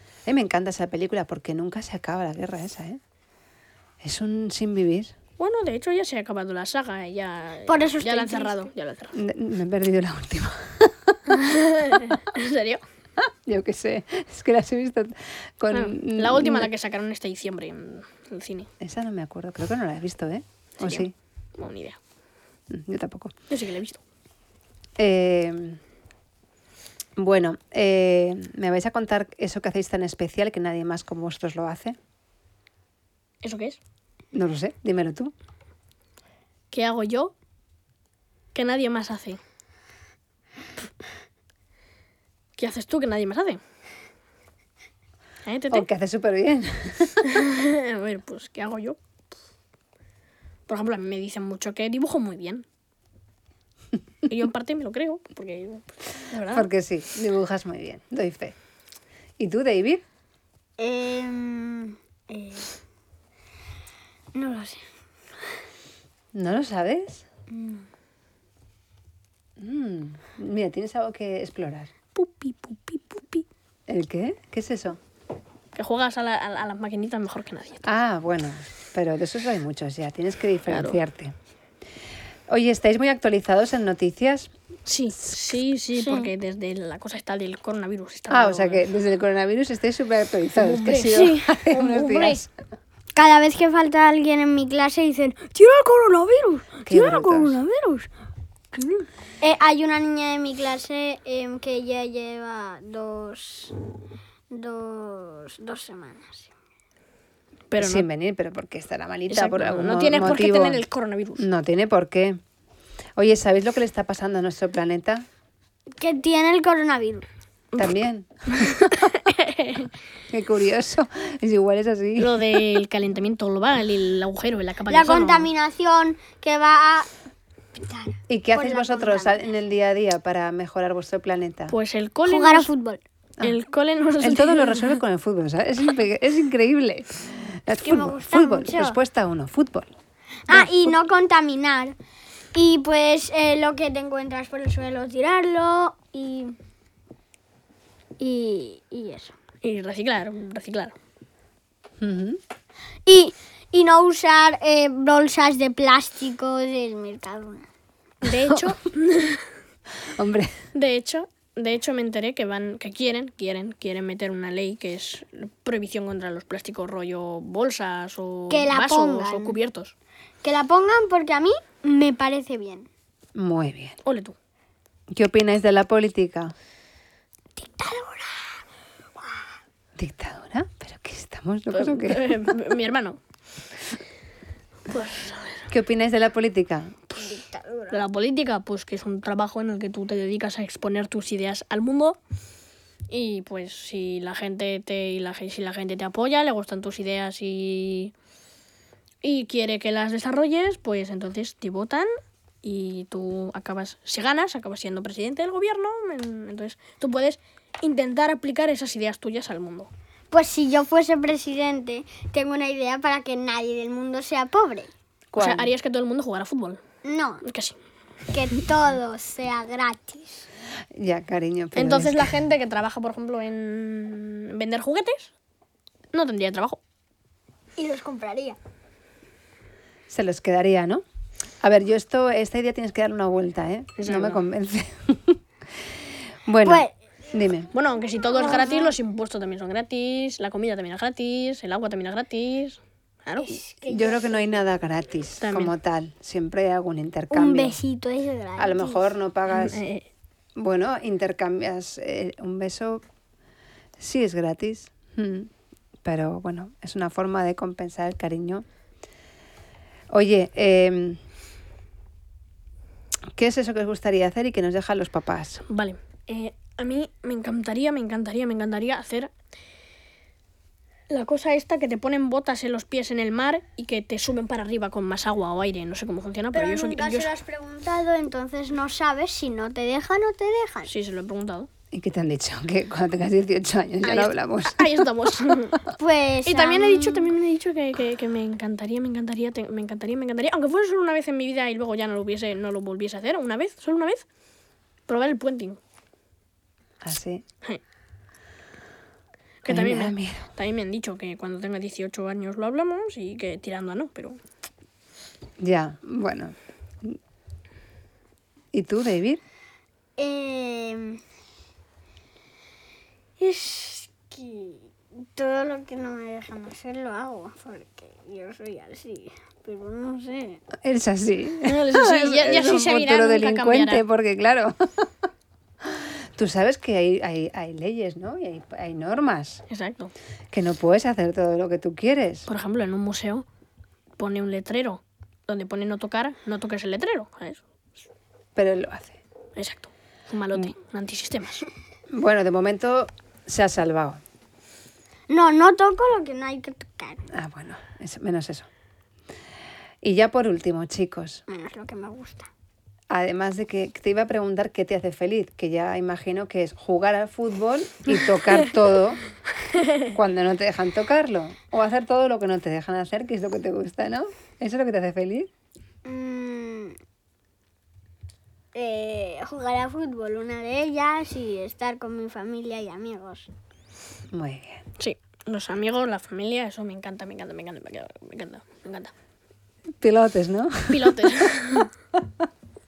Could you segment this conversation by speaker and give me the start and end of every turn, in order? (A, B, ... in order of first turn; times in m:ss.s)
0:00.3-0:03.0 A
0:04.0-0:05.1 A
0:05.4-0:09.2 B
0:07.7-0:08.7 C
0:09.1-0:11.2 A
0:11.3-0:12.8 B
0:13.2-0:16.7 A
0:15.7-0:18.7 B
0:18.8-0:21.1 A
0:20.8-0:22.0 B
0:22.7-0:23.3 A
0:23.5-0:24.0 B
0:25.0-0:25.8 A
0:27.2-0:32.0 A
0:33.4-0:33.8 B
0:34.3-0:35.3 A
0:36.7-0:37.3 B
0:38.5-0:39.4 B
0:42.6-0:43.6 B
0:45.5-0:45.9 B
0:45.7-0:47.4 A
0:47.2-0:49.0 B
0:50.7-0:52.6 B
0:54.2-0:56.7 B
0:56.4-0:58.6 A
0:59.4-1:00.0 A
1:00.8-1:02.7 C
1:04.3-1:04.8 C
1:06.3-1:07.3 A
1:07.5-1:07.9 C
1:09.6-1:11.9 A
1:12.2-1:13.4 B
1:13.9-1:15.0 A
1:15.7-1:17.8 B
1:17.8-1:21.3 A
1:20.7-1:21.0 B
1:22.5-1:24.5 A
1:24.9-1:28.8 B
1:26.0-1:26.3 C
1:28.3-1:32.5 A
1:30.6-1:32.4 B
1:33.2-1:38.1 C
1:36.9-1:37.6 A
1:38.9-1:43.7 C
1:44.5-1:46.5 C
1:47.7-1:48.1 B
1:47.8-1:50.8 A
1:49.3-1:51.5 B
1:51.4-1:52.4 A
1:53.2-1:55.3 A
1:56.0-1:57.2 C
1:57.7-1:59.9 B
1:57.8-1:59.1 A
2:00.3-2:02.6 A
2:02.2-2:05.5 B
2:04.9-2:07.1 C
2:07.8-2:09.4 C
2:08.3-2:11.8 A
2:11.7-2:12.7 B
2:12.3-2:13.0 C
2:13.4-2:15.0 B
2:14.2-2:19.9 A
2:17.8-2:19.0 C
2:20.5-2:22.0 C
2:22.6-2:26.6 C
2:28.2-2:29.4 C
2:29.6-2:31.0 B
2:32.0-2:32.4 A
2:33.1-2:37.7 C
2:38.2-2:39.5 B
2:38.3-2:38.8 A
2:40.1-2:40.6 A
2:40.7-2:49.9 B
2:48.5-2:49.6 C
2:50.4-2:52.9 C
2:53.4-2:54.0 A
2:54.0-2:54.4 B
2:55.1-2:56.5 A
2:57.6-2:58.6 C
3:00.0-3:02.5 A
3:01.7-3:03.2 B
3:04.9-3:05.7 B
3:05.7-3:07.0 A
3:07.2-3:08.0 C
3:07.9-3:12.2 B
3:13.1-3:18.1 B
3:19.2-3:22.1 B
3:22.6-3:29.9 B
3:30.3-3:34.9 C
3:35.3-3:35.7 A
3:35.4-3:36.8 B
3:37.0-3:37.4 C
3:37.4-3:37.8 B
3:38.3-3:40.5 C
3:41.0-3:42.4 A
3:41.8-3:45.3 B
3:46.1-3:46.8 B
3:47.8-3:48.6 C
3:50.1-3:51.0 A
3:51.6-3:55.4 A
3:54.0-3:54.4 B
3:56.5-3:57.7 A
3:56.6-3:56.9 C
3:57.7-4:03.6 B
3:58.2-3:59.0 C
4:03.4-4:04.6 C
4:03.9-4:07.8 A
4:05.4-4:05.7 B
4:07.3-4:09.1 C
4:08.6-4:09.8 A
4:09.5-4:10.1 B
4:10.6-4:13.0 A
4:14.0-4:15.5 A
4:16.0-4:18.6 A
4:20.1-4:21.2 A
4:23.4-4:25.6 A
4:25.7-4:29.3 B
4:31.1-4:37.3 B
4:36.5-4:40.9 C
4:40.9-4:41.7 B
4:41.9-4:45.0 A
4:44.0-4:45.8 B
4:46.0-4:47.3 C
4:46.5-4:54.2 B
4:55.1-4:55.8 B
4:57.0-4:57.4 A
4:59.6-5:04.4 B
4:59.7-5:00.5 A
5:05.6-5:07.2 A
5:08.7-5:09.4 A
5:10.2-5:11.2 C
5:13.4-5:20.6 C
5:20.8-5:25.1 A
5:21.6-5:24.0 B
5:25.8-5:29.6 A
5:29.7-5:30.1 B
5:30.5-5:32.5 A
5:32.5-5:33.4 B
5:34.2-5:37.6 B
5:38.6-5:39.2 A
5:39.6-5:41.7 B
5:42.1-5:44.2 A
5:45.3-5:47.2 C
5:47.3-5:48.7 A
5:50.0-5:51.4 A
5:51.5-5:52.5 C
5:53.1-5:59.2 A
5:59.7-6:00.1 B
6:00.1-6:05.5 A
6:06.0-6:07.0 C
6:08.7-6:13.5 C
6:14.3-6:14.8 A
6:15.0-6:19.1 B
6:20.0-6:22.5 A
6:20.9-6:21.9 B